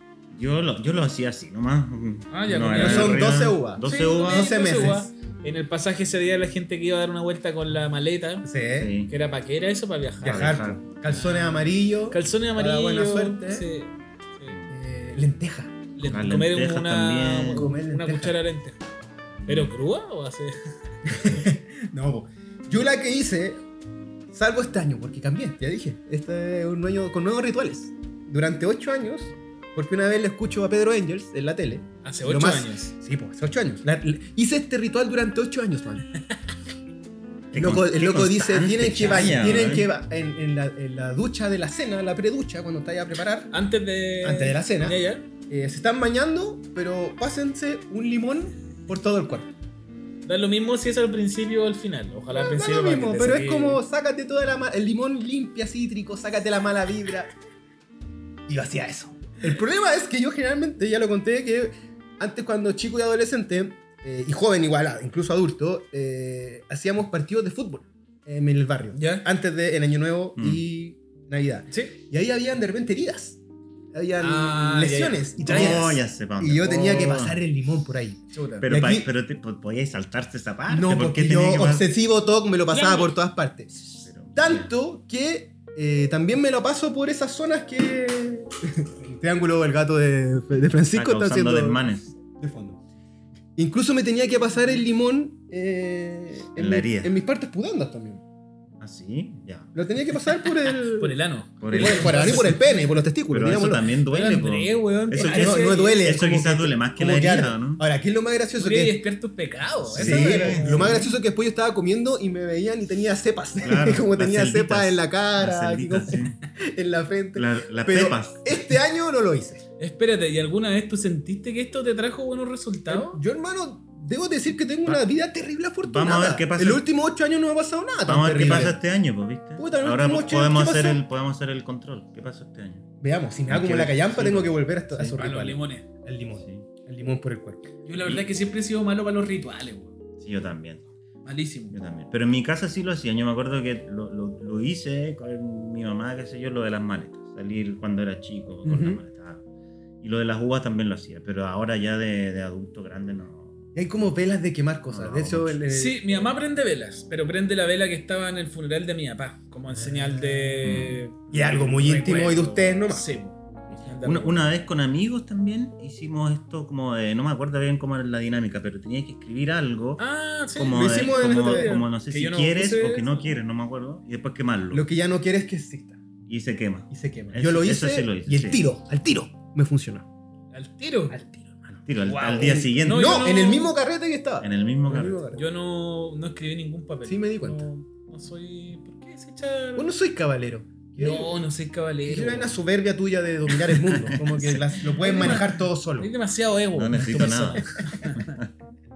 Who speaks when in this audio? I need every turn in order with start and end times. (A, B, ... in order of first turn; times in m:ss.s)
0:00.3-0:04.6 A
0:02.3-0:08.5 B
0:02.8-0:05.1 C
0:08.4-0:08.9 C
0:08.8-0:09.1 A
0:09.1-0:14.6 B
0:10.2-0:10.8 A
0:10.2-0:13.7 C
0:14.7-0:15.8 C
0:16.0-0:18.8 B
0:16.0-0:17.7 A
0:17.5-0:18.4 C
0:19.4-0:19.7 A
0:19.5-0:20.6 B
0:21.0-0:23.6 C
0:24.3-0:36.1 C
0:32.0-0:32.9 B
0:37.5-0:39.9 A
0:37.5-0:43.5 C
0:39.0-0:39.3 B
0:43.5-0:45.2 B
0:44.2-0:49.5 C
0:50.2-0:53.8 B
0:52.3-0:57.3 C
0:58.5-1:13.4 C
1:08.9-1:09.2 B
1:10.4-1:10.6 A
1:11.7-1:12.0 B
1:13.9-1:19.1 C
1:14.2-1:15.9 B
1:15.4-1:17.4 A
1:18.3-1:18.7 B
1:18.6-1:21.9 A
1:20.7-1:23.8 C
1:22.7-1:23.1 B
1:23.8-1:24.7 A
1:24.3-1:32.8 C
1:30.9-1:32.1 A
1:33.6-1:38.2 C
1:36.6-1:37.1 A
1:38.8-1:39.8 A
1:39.8-1:41.2 C
1:40.7-1:42.8 B
1:41.6-1:42.6 A
1:41.7-1:43.9 C
1:43.3-1:47.8 A
1:44.1-1:46.0 B
1:45.2-1:49.0 C
1:48.6-1:51.1 B
1:49.9-1:51.1 A
1:50.0-1:59.6 C
1:53.6-1:56.4 A
1:57.4-1:58.6 A
1:59.8-2:03.2 B
2:02.9-2:08.8 C
2:05.8-2:06.8 A
2:08.1-2:12.9 A
2:09.6-2:11.0 C
2:13.0-2:17.7 C
2:13.5-2:15.2 A
2:15.2-2:15.9 B
2:16.4-2:16.7 A
2:17.8-2:20.0 B
2:20.2-2:20.8 A
2:21.2-2:21.8 B
2:21.7-2:29.4 A
2:28.6-2:29.0 C
2:30.0-2:33.6 A
2:33.8-2:36.0 C
2:34.9-2:35.6 A
2:35.7-2:44.5 B
2:39.8-2:43.1 C
2:40.6-2:41.0 A
2:44.0-2:50.0 A
2:50.0-2:53.3 B
2:50.6-2:54.9 A
2:50.7-2:51.8 C
2:54.7-2:56.0 C
2:56.3-2:58.6 A
2:56.9-3:00.1 C
3:00.5-3:01.2 B
3:01.1-3:01.8 C
3:01.8-3:03.3 A
3:02.0-3:03.7 B
3:02.4-3:05.4 C
3:04.4-3:05.2 A
3:05.3-3:09.9 B
3:07.0-3:07.6 C
3:09.8-3:11.4 C
3:11.0-3:12.6 B
3:12.0-3:16.1 C
3:13.9-3:14.6 A
3:14.4-3:18.4 B
3:15.2-3:15.4 A
3:16.7-3:18.5 A
3:17.0-3:17.3 C